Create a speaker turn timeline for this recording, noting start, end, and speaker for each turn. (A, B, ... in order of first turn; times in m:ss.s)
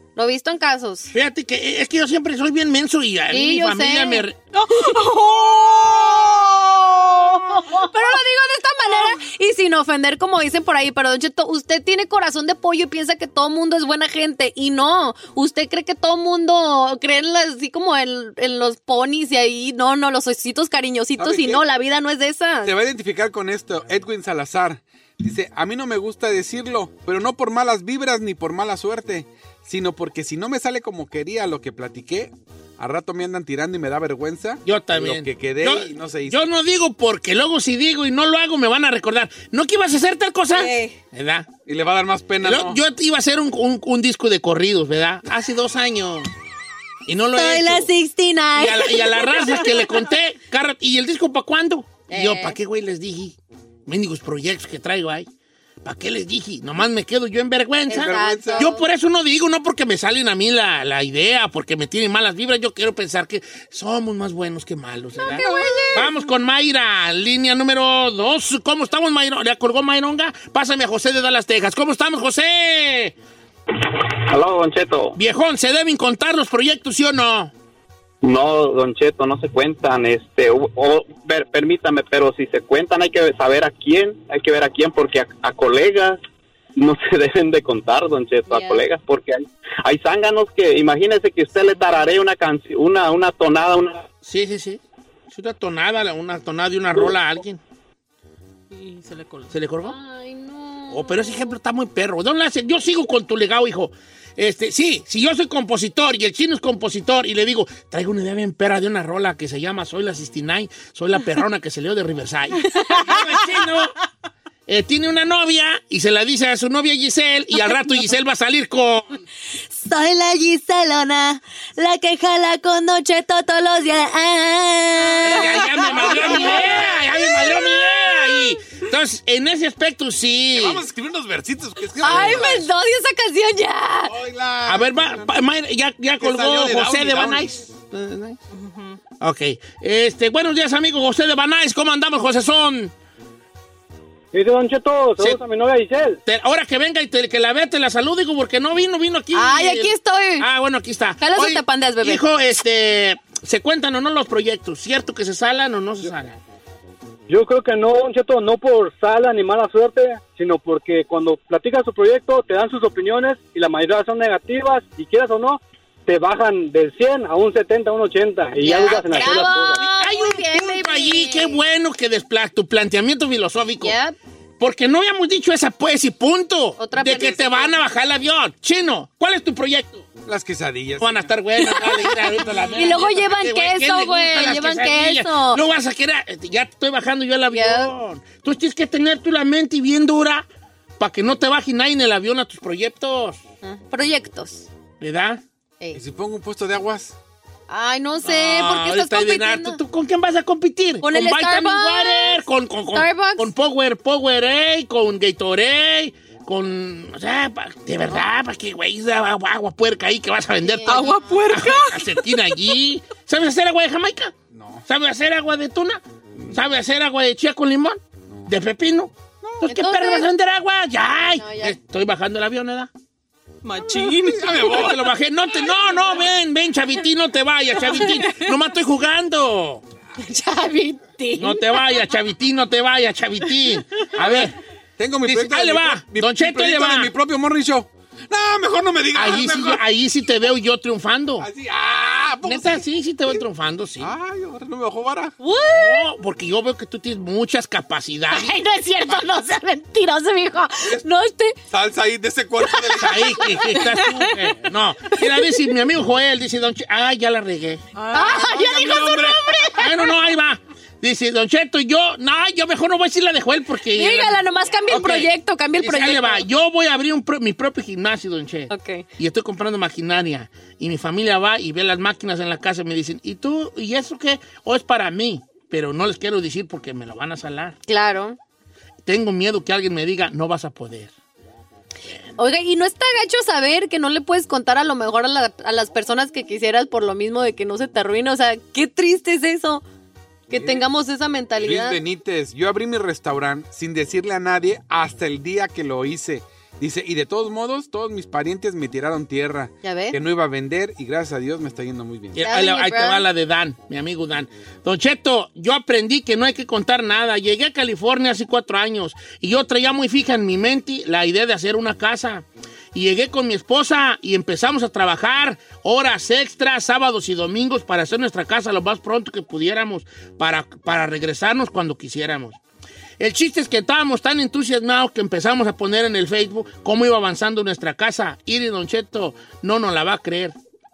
0:00.2-0:01.1 A
0:01.1-0:04.4 B
0:03.3-0:04.2 A
0:04.5-0:08.1 C
0:07.7-0:22.7 A
0:21.2-0:21.6 D
0:22.6-0:36.5 D
0:34.6-0:41.5 B
0:40.6-0:40.9 A
0:41.6-0:42.8 D
0:42.4-0:46.3 B
0:47.1-0:47.9 B
0:47.4-0:49.7 A
0:48.6-0:55.3 B
0:52.1-0:52.6 A
0:55.8-1:13.1 B
0:57.9-0:58.8 A
0:57.9-0:58.7 D
1:05.2-1:06.1 A
1:05.4-1:05.7 D
1:13.7-1:15.1 E
1:15.1-1:17.5 B
1:18.2-1:26.2 E
1:26.8-1:34.1 E
1:28.5-1:28.8 A
1:34.2-1:37.6 B
1:38.7-1:39.5 C
1:39.5-1:40.0 B
1:39.8-1:41.5 A
1:40.9-1:53.9 B
1:52.7-1:53.2 A
1:54.7-1:59.2 B
1:59.7-2:08.2 A
2:05.2-2:10.8 B
2:06.0-2:07.0 D
2:10.5-2:12.7 D
2:12.0-2:14.1 A
2:14.0-2:15.3 D
2:14.6-2:18.4 B
2:16.2-2:17.4 D
2:18.5-2:19.0 C
2:19.2-2:22.9 B
2:24.3-2:26.2 F
2:26.2-2:36.4 B
2:29.3-2:30.5 A
2:31.2-2:32.2 A
2:37.3-2:49.8 F
2:48.6-2:51.6 A
2:49.7-2:53.9 B
2:53.8-2:54.1 A
2:54.6-3:00.0 B
2:56.8-2:57.8 A
3:00.2-3:01.3 D
3:01.0-3:10.4 B
3:02.8-3:05.6 A
3:07.5-3:07.9 A
3:11.0-3:13.4 B
3:13.6-3:14.7 A
3:15.0-3:15.4 B
3:15.9-3:17.1 D
3:17.7-3:19.8 A
3:18.2-3:34.3 B
3:21.0-3:22.4 A
3:22.9-3:23.5 A
3:30.6-3:31.4 A
3:30.8-3:32.5 C
3:34.5-3:34.8 D
3:34.9-3:39.1 B
3:39.6-3:42.9 B
3:39.6-3:40.3 A
3:41.4-3:41.8 A
3:43.6-3:44.8 C
3:43.8-3:45.1 D
3:44.6-3:49.8 B
3:47.8-3:48.5 C
3:50.2-3:51.6 A
3:51.4-3:54.6 B
3:54.2-3:59.8 D
3:55.2-3:57.1 B
3:59.1-4:01.5 B
4:01.4-4:03.4 D
4:02.4-4:04.1 B
4:04.0-4:05.3 D
4:05.4-4:06.1 C
4:05.7-4:08.5 B
4:08.3-4:11.6 A
4:11.7-4:13.6 D
4:13.0-4:17.8 B
4:13.8-4:14.5 C
4:18.0-4:19.3 C
4:18.1-4:19.9 A
4:18.4-4:19.5 D
4:19.8-4:37.8 B
4:23.9-4:26.4 A
4:28.7-4:29.0 A
4:37.9-4:38.4 A
4:39.0-4:41.1 B
4:42.4-4:49.8 A
4:50.5-4:52.0 A
4:50.5-4:50.9 D
4:51.6-5:02.4 D
4:59.8-5:00.1 A
5:02.3-5:22.6 B
5:02.4-5:03.2 A
5:23.2-5:30.6 B